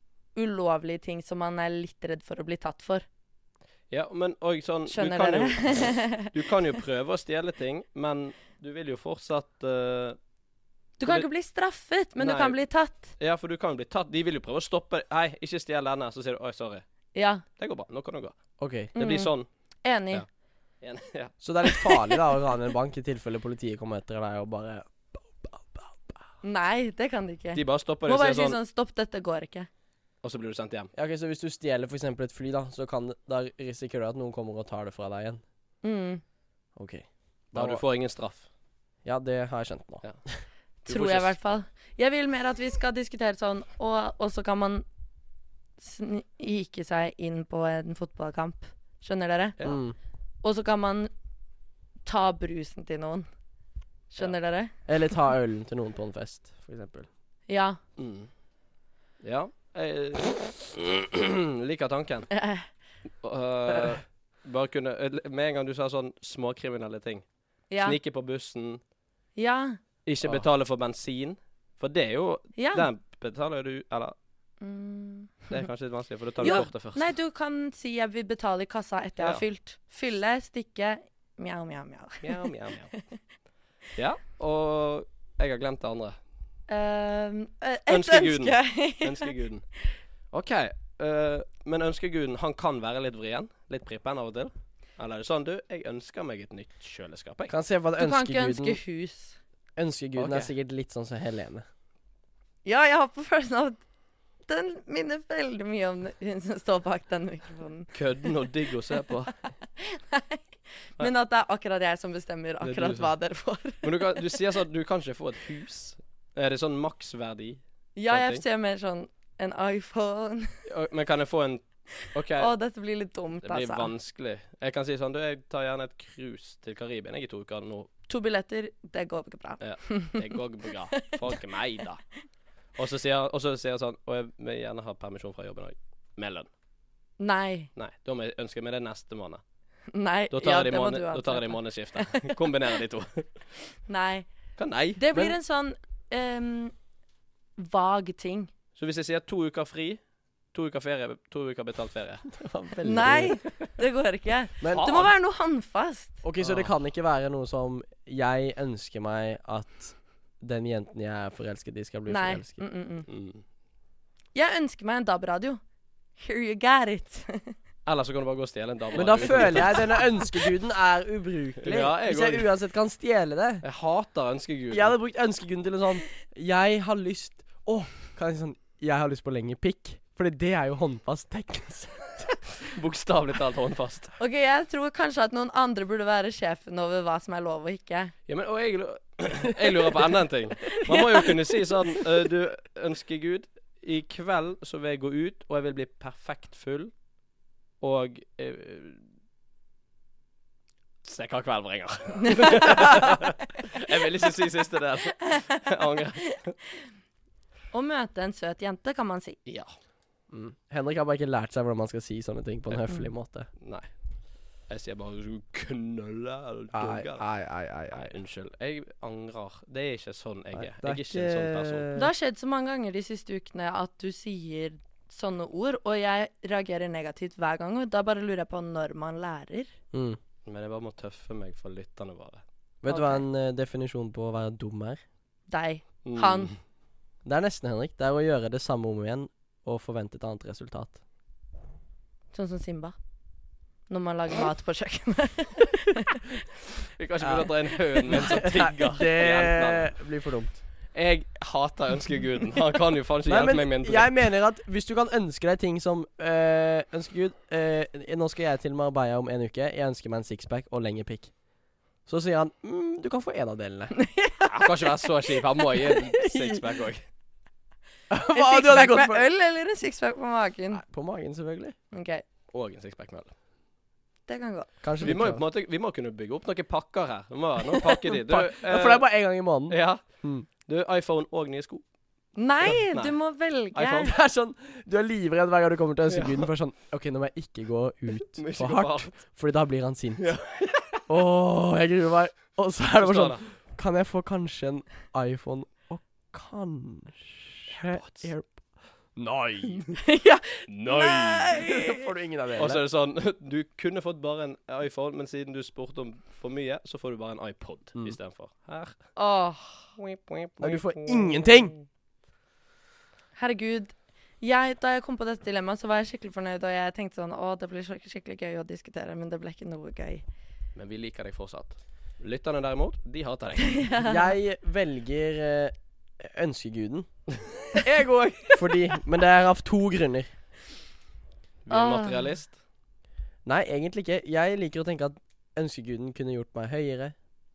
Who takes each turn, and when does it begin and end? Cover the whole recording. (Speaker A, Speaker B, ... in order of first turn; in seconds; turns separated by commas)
Speaker A: 0.3-3.0, Speaker B: 3.9-10.2, Speaker A: 4.9-6.3, Speaker A: 11.0-13.1, Speaker B: 12.2-12.6, Speaker B: 13.2-16.8, Speaker A: 17.1-17.4, Speaker B: 17.6-18.4, Speaker C: 18.6-18.9, Speaker B: 18.9-19.5, Speaker A: 18.9-19.3, Speaker A: 19.8-20.2, Speaker B: 20.8-21.3, Speaker C: 21.4-26.2, Speaker A: 21.7-22.2, Speaker A: 26.4-29.7, Speaker B: 27.5-28.6, Speaker B: 30.2-30.9, Speaker C: 30.9-35.4, Speaker A: 35.8-36.2, Speaker C: 36.8-37.8, Speaker B: 37.5-38.5, Speaker C: 39.0-40.4, Speaker A: 40.8-44.8, Speaker B: 40.9-41.3, Speaker A: 45.8-49.6, Speaker C: 49.6-49.9, Speaker A: 50.4-51.1, Speaker A: 52.0-53.3, Speaker A: 54.1-54.7, Speaker C: 54.9-57.1, Speaker A: 57.5-57.8, Speaker B: 58.0-58.3, Speaker B: 59.2-62.3, Speaker A: 62.3-62.7, Speaker B: 63.2-68.8, Speaker A: 67.7-68.0, Speaker A: 69.3-69.8, Speaker B: 70.0-74.1, Speaker A: 72.5-72.9, Speaker A: 74.6-75.6, Speaker B: 75.5-77.1, Speaker A: 76.4-83.0, Speaker B: 79.2-79.4, Speaker B: 82.2-82.9, Speaker B: 84.0-86.2, Speaker A: 86.7-89.3, Speaker B: 87.9-89.6, Speaker B: 90.3-97.5, Speaker C: 97.5-98.8, Speaker A: 98.0-99.4, Speaker C: 99.8-101.7, Speaker B: 100.2-100.5, Speaker A: 102.6-103.8, Speaker A: 104.5-107.9, Speaker B: 107.9-109.3, Speaker A: 109.8-110.4, Speaker A: 111.0-114.2, Speaker B: 112.6-113.1, Speaker B: 113.8-118.4, Speaker A: 118.0-120.6, Speaker B: 120.7-122.5, Speaker A: 122.4-123.9, Speaker B: 123.4-127.9, Speaker A: 128.1-130.4, Speaker B: 129.6-132.0, Speaker B: 132.8-136.5, Speaker A: 137.2-137.7, Speaker B: 137.8-139.4, Speaker A: 139.9-142.4, Speaker B: 140.3-143.3, Speaker A: 143.9-144.3, Speaker B: 144.6-145.0, Speaker A: 144.9-146.7, Speaker A: 147.6-148.5, Speaker B: 148.8-150.0, Speaker B: 150.5-152.2, Speaker C: 152.3-153.4, Speaker A: 152.8-156.2, Speaker C: 154.6-155.0, Speaker B: 154.7-155.1, Speaker C: 156.2-162.6, Speaker B: 156.4-156.7, Speaker A: 162.1-163.1, Speaker B: 163.1-163.4, Speaker A: 164.3-165.6, Speaker A: 166.2-167.5, Speaker B: 167.8-170.0, Speaker C: 168.9-173.6, Speaker B: 171.6-172.5, Speaker B: 173.6-174.9, Speaker C: 174.7-182.3, Speaker B: 182.6-184.1, Speaker A: 184.2-188.1, Speaker B: 188.3-196.9, Speaker B: 197.8-199.0, Speaker B: 201.0-206.5, Speaker A: 202.2-203.2, Speaker A: 205.2-205.6, Speaker A: 207.7-209.4, Speaker B: 209.4-209.7, Speaker C: 210.3-213.5, Speaker B: 213.6-213.9, Speaker B: 214.7-217.2, Speaker C: 216.7-218.1, Speaker B: 217.9-221.8, Speaker C: 220.5-222.1, Speaker A: 221.9-229.7, Speaker C: 229.9-230.2, Speaker B: 230.4-232.4, Speaker C: 232.8-235.0, Speaker A: 232.9-233.2, Speaker A: 235.5-236.5, Speaker B: 236.0-236.6, Speaker C: 237.2-241.0, Speaker A: 242.3-242.9, Speaker A: 243.9-246.4, Speaker B: 247.0-249.9, Speaker C: 247.2-247.5, Speaker C: 248.1-250.6, Speaker B: 250.9-254.1, Speaker C: 253.3-261.3, Speaker C: 262.1-263.9, Speaker A: 263.9-265.1, Speaker B: 264.4-267.0, Speaker C: 266.1-266.6, Speaker C: 268.1-269.2, Speaker A: 268.3-270.8, Speaker C: 270.7-271.8, Speaker A: 271.9-272.2, Speaker B: 272.5-273.3, Speaker A: 274.3-274.7, Speaker C: 274.8-275.4, Speaker B: 275.0-279.1, Speaker C: 277.7-280.5, Speaker B: 279.7-280.0, Speaker B: 280.6-281.8, Speaker A: 282.4-284.1, Speaker B: 282.6-283.1, Speaker C: 283.8-290.4, Speaker B: 286.1-286.5, Speaker B: 288.3-289.2, Speaker B: 290.2-291.0, Speaker C: 291.1-298.5, Speaker B: 293.0-293.4, Speaker B: 297.7-298.3, Speaker C: 299.1-299.8, Speaker A: 299.9-302.1, Speaker B: 300.7-301.5, Speaker C: 301.5-302.8, Speaker B: 302.6-309.0, Speaker A: 309.1-309.9, Speaker B: 310.0-311.8, Speaker C: 310.6-311.7, Speaker A: 313.4-320.2, Speaker B: 320.7-323.8, Speaker A: 323.6-324.2, Speaker C: 324.0-327.1, Speaker B: 327.6-328.6, Speaker C: 328.5-330.3, Speaker B: 331.6-332.6, Speaker A: 331.7-332.3, Speaker C: 333.4-337.1